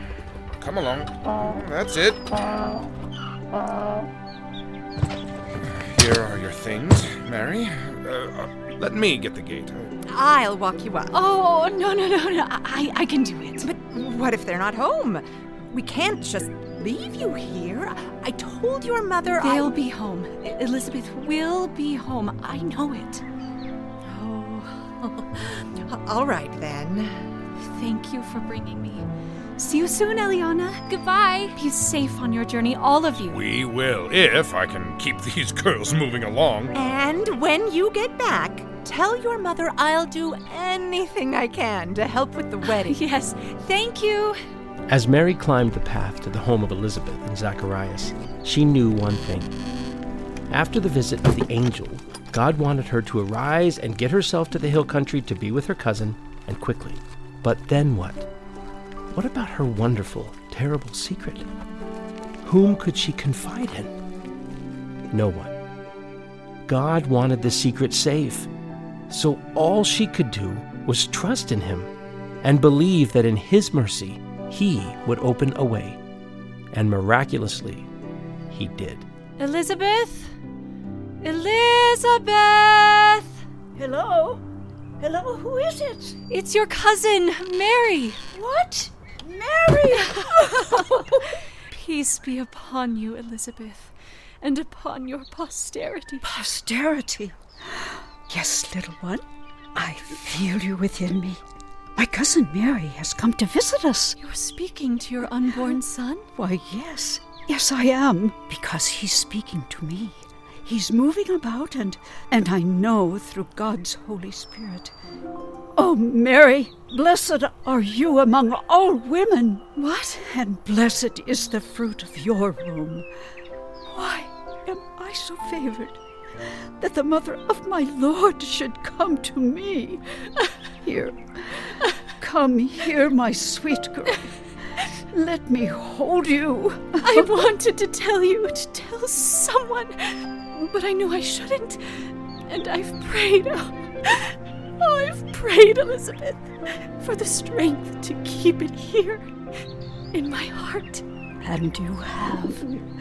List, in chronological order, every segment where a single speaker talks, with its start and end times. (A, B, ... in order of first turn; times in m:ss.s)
0:00.6-0:02.2 A
0:05.8-0:09.9 A
0:10.0-0:11.2 B
0:11.1-0:13.7 C
0:13.6-0:19.8 B
0:19.4-0:23.2 C
0:24.1-0:27.1 B
0:27.6-0:33.4 C
0:30.9-0:31.6 B
0:33.3-0:36.8 A
0:36.7-0:43.0 B
0:42.6-0:44.4 C
0:44.9-0:49.6 D
0:50.5-0:58.3 D
0:59.1-1:01.4 D
1:02.4-1:03.9 D
1:05.1-1:05.6 D
1:06.6-1:08.5 D
1:09.1-1:16.0 D
1:16.7-1:17.9 D
1:18.5-1:19.0 D
1:19.4-1:20.3 C
1:21.2-1:23.4 C
1:23.7-1:24.4 E
1:25.0-1:26.2 E
1:26.3-1:28.2 C
1:28.3-1:31.1 E
1:30.1-1:36.2 C
1:36.2-1:41.4 E
1:42.0-1:44.2 E
1:44.2-1:46.3 C
1:46.4-1:54.9 E
1:55.8-1:59.7 E
1:59.8-2:00.2 C
2:00.2-2:03.1 E
2:03.9-2:06.0 E
2:06.8-2:10.0 E
2:10.8-2:14.3 E
2:15.1-2:17.3 E
2:17.0-2:29.3 C
2:30.1-2:31.0 C
2:31.4-2:32.7 E